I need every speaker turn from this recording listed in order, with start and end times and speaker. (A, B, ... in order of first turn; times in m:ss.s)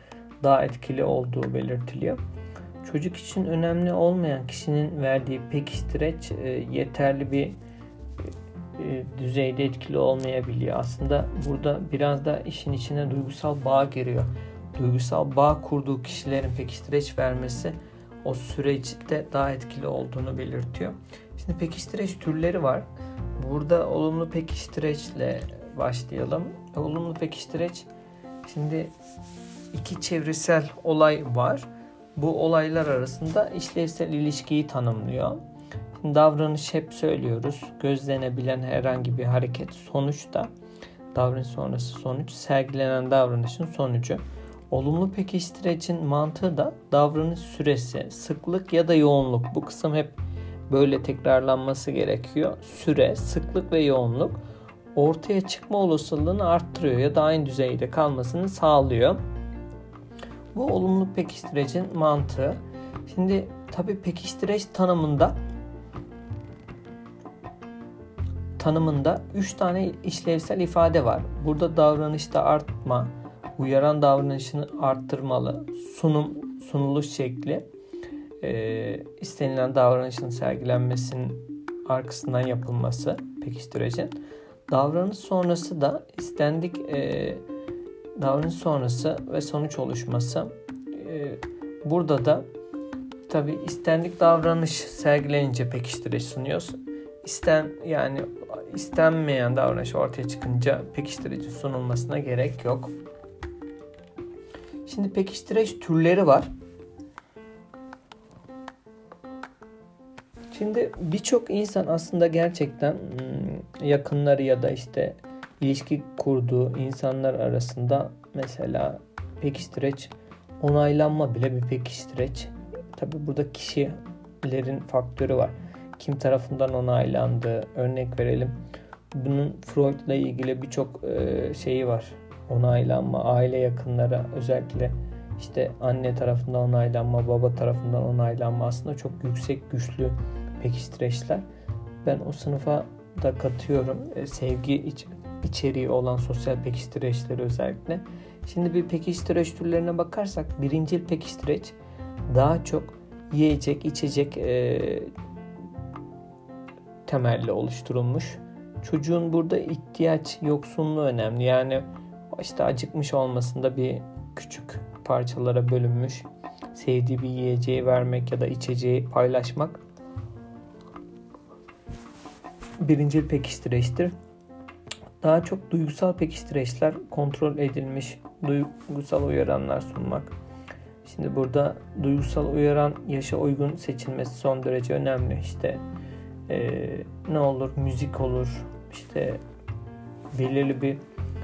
0:00.4-0:02.2 A
0:02.8-0:07.6 A
0:08.8-0:22.8 A
0:23.4-0:27.9 A
0:28.4-0:28.9 A
0:29.7-0:35.4 A
0:36.0-0:40.5 A
0:41.1-0:50.2 A
0:50.7-0:54.4 A
0:54.9-0:59.2 A
1:00.5-1:05.4 A
1:08.6-1:17.6 A
1:18.4-1:24.2 A
1:24.7-1:27.4 A
1:28.2-1:32.4 A
1:33.3-1:42.9 A
1:44.8-1:46.5 A
1:50.5-2:08.5 A
2:09.1-2:21.4 A
2:22.0-2:31.8 A
2:32.3-2:35.1 A
2:37.0-2:49.8 A
2:52.8-2:54.1 A
2:55.2-3:00.3 A
3:01.0-3:05.8 A
3:06.5-3:09.4 A
3:10.3-3:11.0 A